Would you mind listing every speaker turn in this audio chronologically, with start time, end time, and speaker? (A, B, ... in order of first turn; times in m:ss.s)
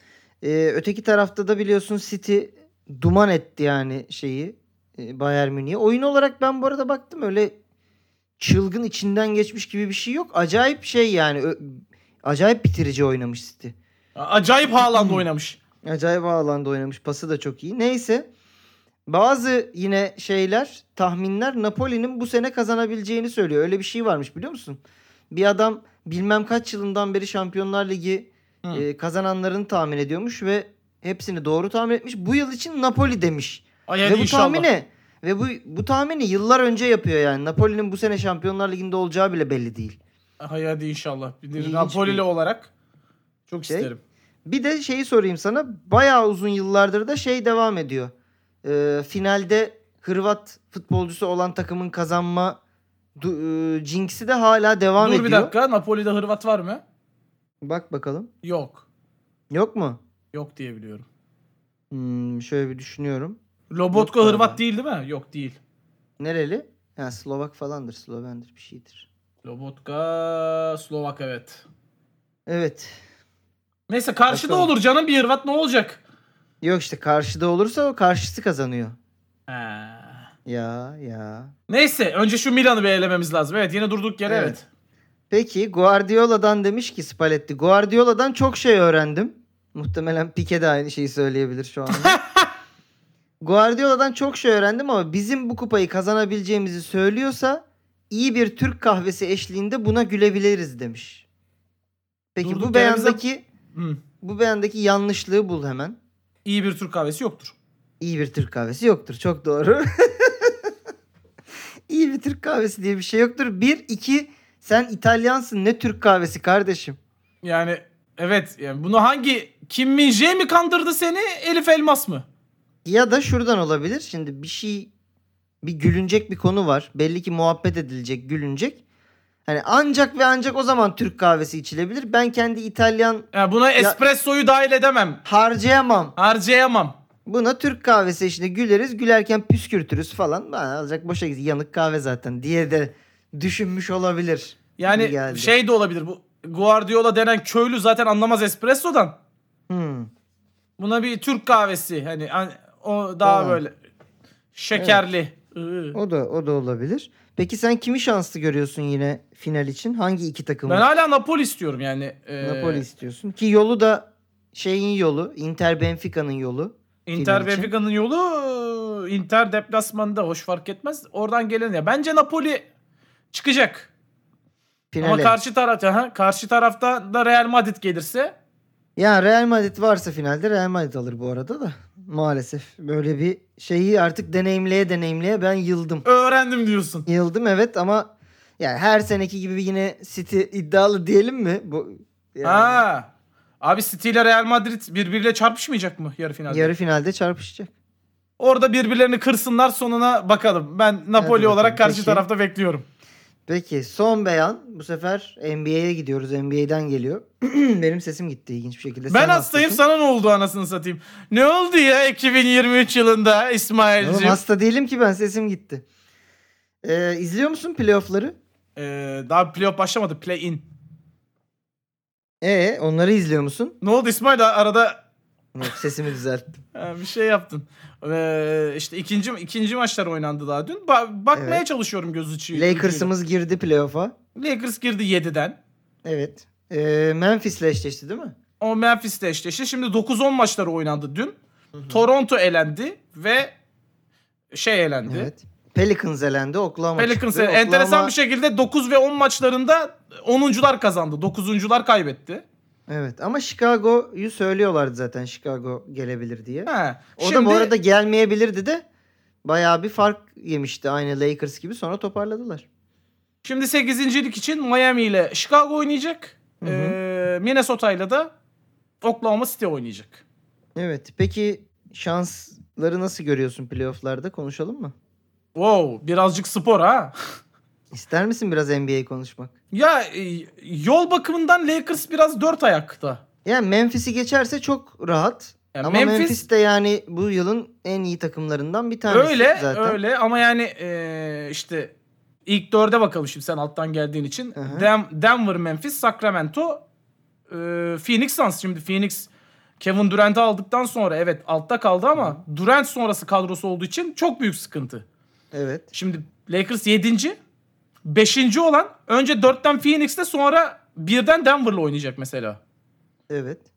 0:00.4-0:07.6 A
0:08.4-0:13.7 A
0:14.1-0:15.6 B
0:14.9-0:15.2 A
0:15.8-0:18.3 A
0:19.1-0:24.8 A
0:25.3-0:40.0 A
0:33.9-0:34.7 B
0:40.4-0:42.7 B
0:41.6-0:42.2 A
0:43.5-0:44.0 B
0:44.4-0:48.1 A
0:48.6-0:52.6 A
0:53.2-0:55.5 A
0:55.0-0:56.8 B
0:57.6-0:58.3 A
0:58.4-0:58.8 B
0:59.5-1:00.0 A
1:00.3-1:01.0 B
1:01.9-1:03.4 A
1:03.7-1:05.6 B
1:03.9-1:04.6 A
1:06.2-1:09.1 A
1:09.4-1:11.6 B
1:12.5-1:13.0 A
1:13.9-1:16.0 B
1:14.3-1:14.7 A
1:16.6-1:19.0 A
1:19.5-1:20.3 B
1:20.4-1:21.5 A
1:21.7-1:24.6 B
1:24.2-1:24.6 A
1:25.3-1:32.2 A
1:31.9-1:32.5 B
1:33.4-1:41.2 A
1:42.3-1:43.4 A
1:42.4-1:43.2 B
1:43.7-1:44.0 B
1:44.2-1:46.0 A
1:46.4-1:47.6 B
1:48.0-1:50.7 A
1:51.9-1:57.0 A
1:57.4-2:02.2 B
2:02.8-2:04.9 A
2:05.6-2:08.8 A
2:09.5-2:14.0 A
2:13.3-2:15.2 B
2:15.2-2:16.1 A
2:16.2-2:17.0 B
2:17.2-2:25.5 A
2:24.8-2:29.2 B
2:29.7-2:30.1 A
2:30.8-2:33.7 B
2:33.2-2:33.6 A
2:34.5-2:36.0 B
2:34.7-2:35.0 A
2:35.9-2:40.8 A
2:40.6-2:42.8 B
2:42.4-2:47.7 A
2:47.0-2:52.6 B
2:53.3-2:53.9 B
2:54.9-2:55.4 A
2:55.0-2:58.3 B
2:59.0-3:06.0 A
3:06.0-3:07.0 B
3:07.0-3:12.8 A
3:12.4-3:13.1 B
3:13.6-3:16.7 B
3:16.5-3:17.7 A
3:18.4-3:22.8 B
3:21.2-3:22.2 A
3:23.5-3:29.8 A
3:29.1-3:34.4 B
3:34.0-3:35.8 A
3:36.8-3:38.4 A
3:38.8-3:40.6 B
3:42.4-3:43.8 A
3:43.8-3:45.0 B
3:45.5-3:46.6 A
3:46.7-3:53.1 B
3:51.3-3:51.6 A
3:52.5-3:54.1 A
3:54.3-3:55.6 B
3:56.0-3:58.3 A
3:58.6-4:01.4 B
4:01.7-4:02.0 A
4:01.9-4:03.5 B
4:04.5-4:05.3 B
4:05.1-4:08.1 A
4:07.0-4:12.4 B
4:12.9-4:18.8 A
4:16.6-4:17.7 B
4:19.4-4:22.6 A
4:23.4-4:28.3 B
4:26.6-4:27.0 A
4:29.0-4:30.2 B
4:30.8-4:34.9 A
4:35.5-4:37.1 B
4:37.9-4:39.5 A
4:39.7-4:43.2 B
4:43.4-4:50.0 A
4:45.7-4:46.4 B
4:49.1-4:51.9 B
4:52.4-4:56.8 B
4:54.6-4:54.9 A
4:57.5-4:59.3 B
4:59.8-5:05.0 B
5:05.5-5:05.9 A
5:05.9-5:07.4 B
5:08.0-5:12.6 B
5:13.3-5:13.6 A